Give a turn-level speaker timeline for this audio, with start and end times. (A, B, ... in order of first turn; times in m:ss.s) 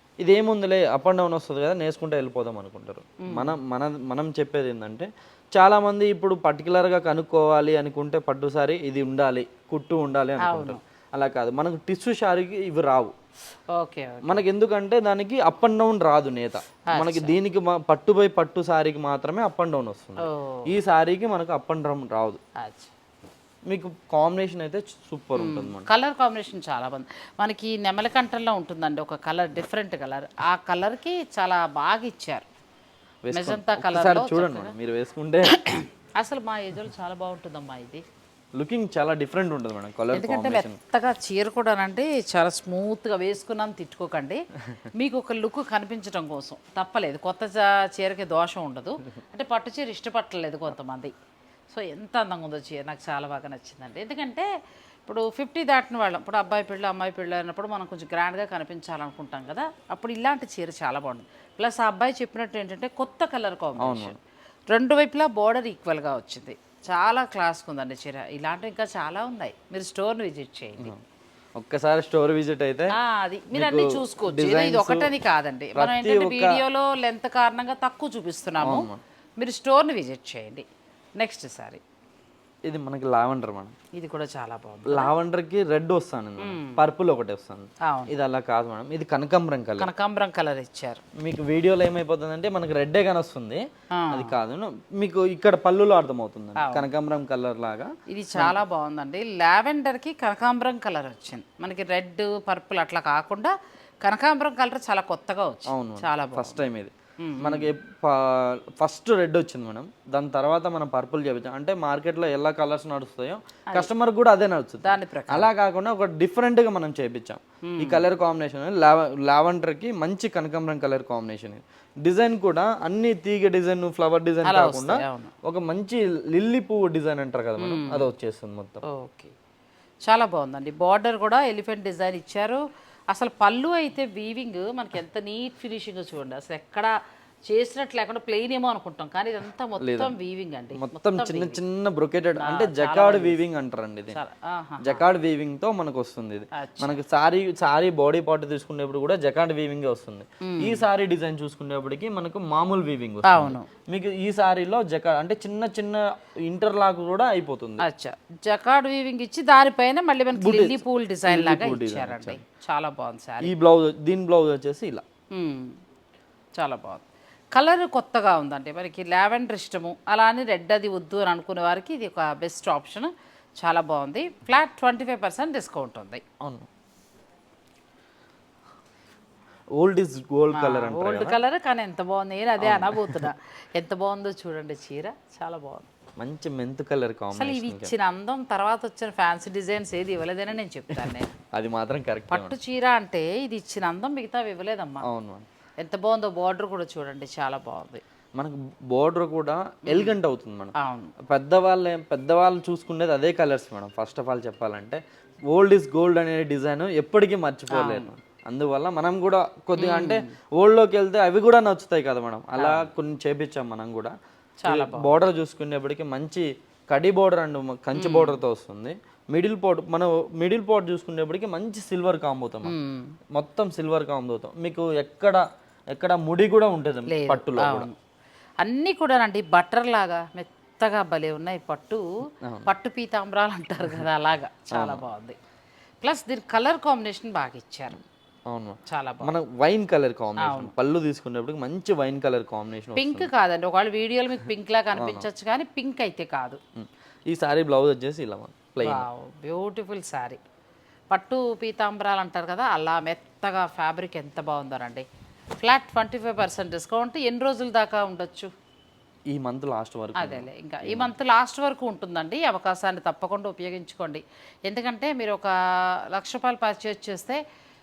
0:00.2-0:13.1 A
0:03.2-0:03.5 B
0:10.4-0:10.8 B
0:13.7-0:14.4 B
0:14.2-0:22.4 A
0:16.9-0:17.4 B
0:20.2-0:20.7 B
0:22.6-0:22.9 B
0:23.7-0:25.9 A
0:25.4-0:32.5 B
0:33.2-0:35.6 A
0:33.3-0:34.8 B
0:35.5-0:38.0 B
0:38.6-0:40.8 A
0:40.1-0:51.1 B
0:51.7-0:54.5 B
0:55.1-1:04.2 B
1:03.8-1:04.2 A
1:04.7-1:11.0 B
1:11.6-1:12.9 A
1:12.9-1:20.6 B
1:13.5-1:15.1 A
1:15.8-1:16.6 A
1:18.6-1:19.0 A
1:21.2-1:21.8 B
1:22.6-1:23.7 A
1:23.9-1:25.1 B
1:24.9-1:29.9 A
1:26.4-1:26.8 B
1:27.8-1:28.1 B
1:29.8-1:31.0 B
1:31.2-1:38.6 A
1:33.9-1:34.3 B
1:36.6-1:36.8 B
1:38.1-1:46.6 B
1:45.7-2:08.8 A
1:47.2-1:47.7 B
1:54.8-1:55.5 B
1:57.6-1:58.0 B
2:04.4-2:05.3 B
2:07.6-2:08.1 B
2:08.8-2:09.3 B
2:10.0-2:17.0 B
2:17.5-2:21.6 B
2:19.8-2:20.1 A
2:20.7-2:24.2 A
2:22.4-2:23.4 B
2:24.1-2:25.0 B
2:24.8-2:37.8 A
2:26.5-2:27.0 B
2:30.4-2:30.8 B
2:33.2-2:33.7 B
2:37.8-2:43.5 B
2:40.3-2:42.4 A
2:43.4-2:45.0 A
2:45.3-2:45.8 B
2:46.6-2:56.2 B
2:56.4-2:56.7 A
2:59.8-3:01.4 A
3:00.5-3:05.9 B
3:02.6-3:03.3 A
3:06.2-3:07.9 A
3:07.3-3:11.3 B
3:11.1-3:12.6 A
3:12.3-3:15.1 B
3:15.0-3:15.5 A
3:15.8-3:18.0 B
3:18.4-3:34.2 A
3:19.9-3:20.2 B
3:20.8-3:21.2 B
3:27.7-3:28.1 B
3:29.8-3:30.3 B
3:32.6-3:32.9 B
3:34.6-3:35.2 B
3:34.7-3:42.8 A
3:38.0-3:38.4 B
3:42.6-3:43.2 B
3:43.3-3:47.9 A
3:47.1-3:48.0 B
3:48.6-3:52.0 B
3:52.4-3:52.7 A
3:52.7-3:55.4 B
3:54.7-3:55.0 A
3:56.0-3:58.0 B
3:58.5-4:03.3 A
3:58.9-3:59.3 B
4:00.4-4:00.7 B
4:03.0-4:06.6 B
4:05.0-4:05.3 A
4:06.8-4:09.1 A
4:08.8-4:10.4 B
4:11.1-4:15.0 B
4:15.6-4:18.5 B
4:19.3-4:21.1 A
4:20.2-4:27.4 B